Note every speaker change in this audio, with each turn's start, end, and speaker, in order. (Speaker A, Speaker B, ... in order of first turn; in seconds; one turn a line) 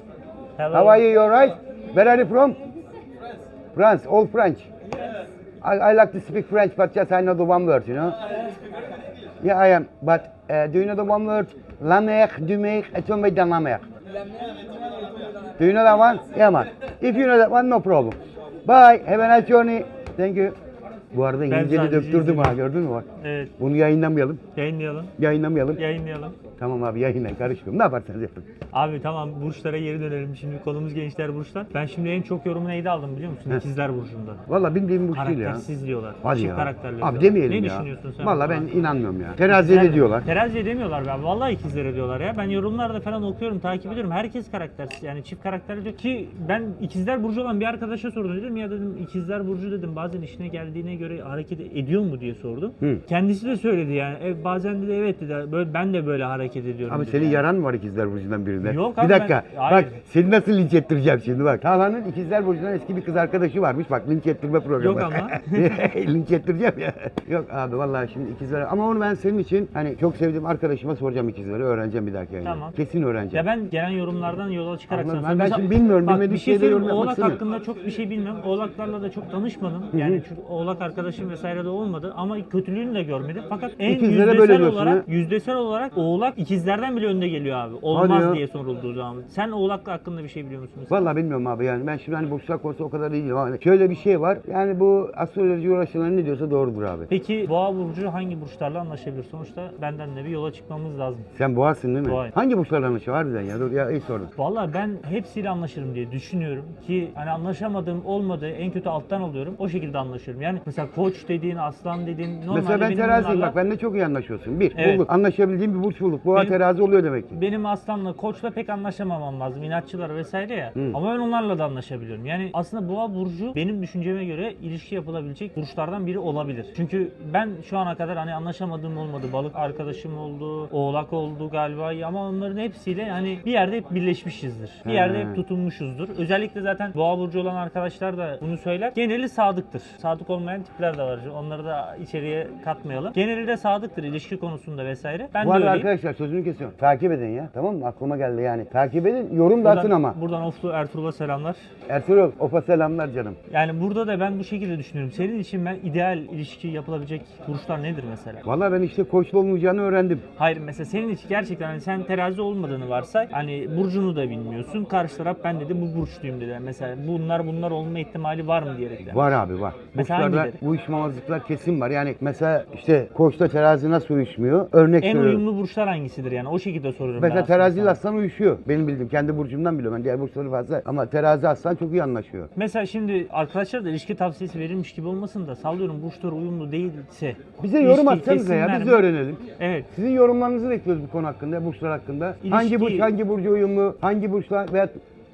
Speaker A: 0.6-1.0
Speaker B: 0.7-2.6
Speaker B: 3.7-4.7
Speaker B: 5.6-8.2
Speaker B: 9.4-13.8
Speaker B: 15.6-20.6
Speaker B: 21.1-23.1
Speaker A: 21.5-22.6
Speaker A: 23.2-23.5
Speaker B: 23.6-24.4
Speaker A: 24.6-25.1
Speaker B: 25.2-25.8
Speaker A: 25.8-26.3
Speaker B: 26.6-28.5
Speaker A: 28.7-34.4
Speaker B: 34.5-35.6
Speaker A: 35.1-38.7
Speaker B: 36.2-40.3
Speaker A: 39.5-57.4
Speaker B: 56.9-73.5
Speaker A: 58.6-60.0
Speaker A: 64.8-65.7
Speaker A: 72.4-72.8
Speaker A: 73.3-91.0
Speaker B: 74.9-77.4
Speaker B: 79.9-80.2
Speaker B: 83.8-85.0
Speaker B: 87.9-88.4
Speaker B: 90.9-97.1
Speaker A: 97.1-101.3
Speaker B: 101.3-104.3
Speaker A: 102.0-102.3
Speaker A: 104.3-113.5
Speaker B: 112.5-117.3
Speaker A: 114.7-115.0
Speaker A: 117.3-145.9
Speaker B: 134.8-135.4
Speaker B: 145.4-150.2
Speaker A: 149.6-151.6
Speaker B: 151.9-153.4
Speaker A: 153.5-158.4
Speaker B: 158.4-160.2
Speaker A: 160.4-169.4
Speaker B: 169.0-175.4
Speaker A: 169.9-170.6
Speaker A: 175.0-178.0
Speaker B: 177.2-182.5
Speaker A: 182.6-189.9
Speaker B: 187.6-195.0
Speaker A: 192.4-193.1